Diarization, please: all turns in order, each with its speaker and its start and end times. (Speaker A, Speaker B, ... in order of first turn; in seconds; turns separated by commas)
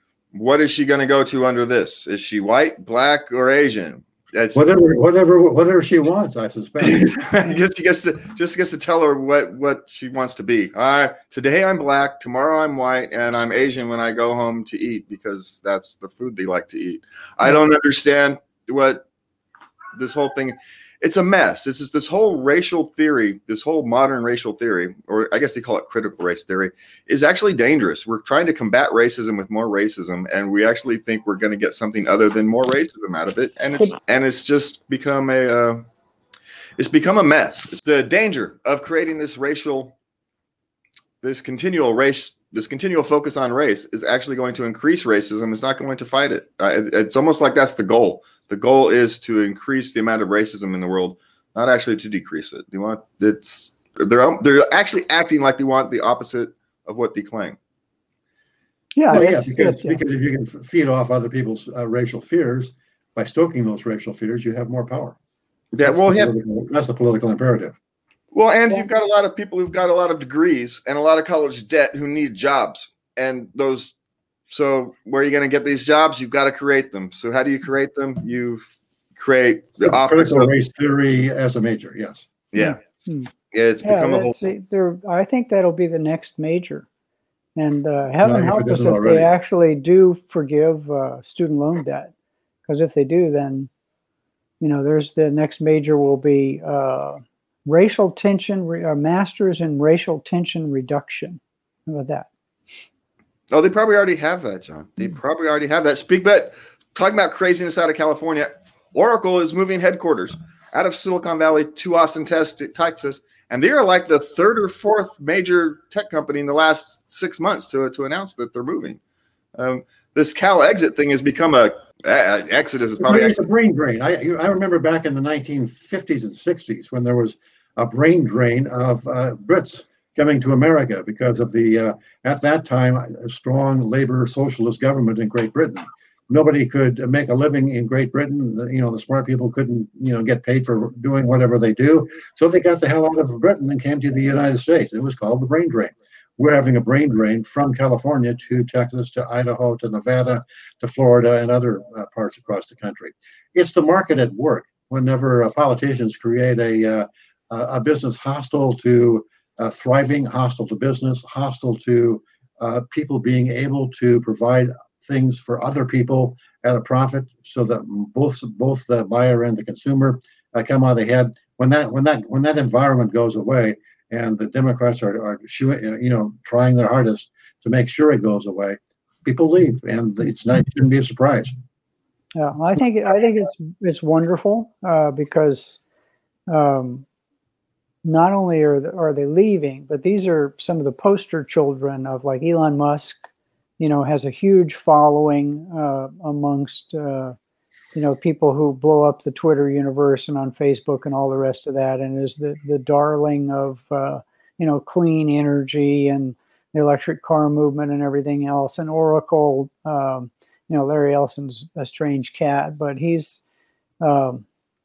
Speaker A: 0.3-4.6, Speaker B: 4.5-7.2, Speaker A: 6.8-19.0, Speaker A: 19.9-35.8, Speaker A: 36.8-39.9, Speaker A: 41.2-57.6, Speaker C: 59.0-60.0, Speaker B: 59.1-65.2, Speaker A: 65.7-66.3, Speaker B: 65.8-67.8, Speaker A: 68.3-73.9, Speaker A: 74.5-80.5, Speaker B: 79.8-82.3, Speaker A: 82.5-82.8, Speaker C: 82.6-83.3, Speaker A: 83.5-84.4, Speaker C: 83.8-86.9, Speaker C: 87.6-92.1, Speaker B: 88.2-89.3, Speaker C: 92.7-93.7, Speaker C: 94.6-102.3, Speaker A: 103.5-119.0, Speaker A: 119.5-123.4, Speaker B: 123.0-181.5, Speaker C: 182.4-185.8, Speaker C: 186.5-187.1, Speaker C: 188.0-193.2, Speaker C: 193.8-197.3, Speaker C: 197.9-213.4, Speaker C: 214.0-214.4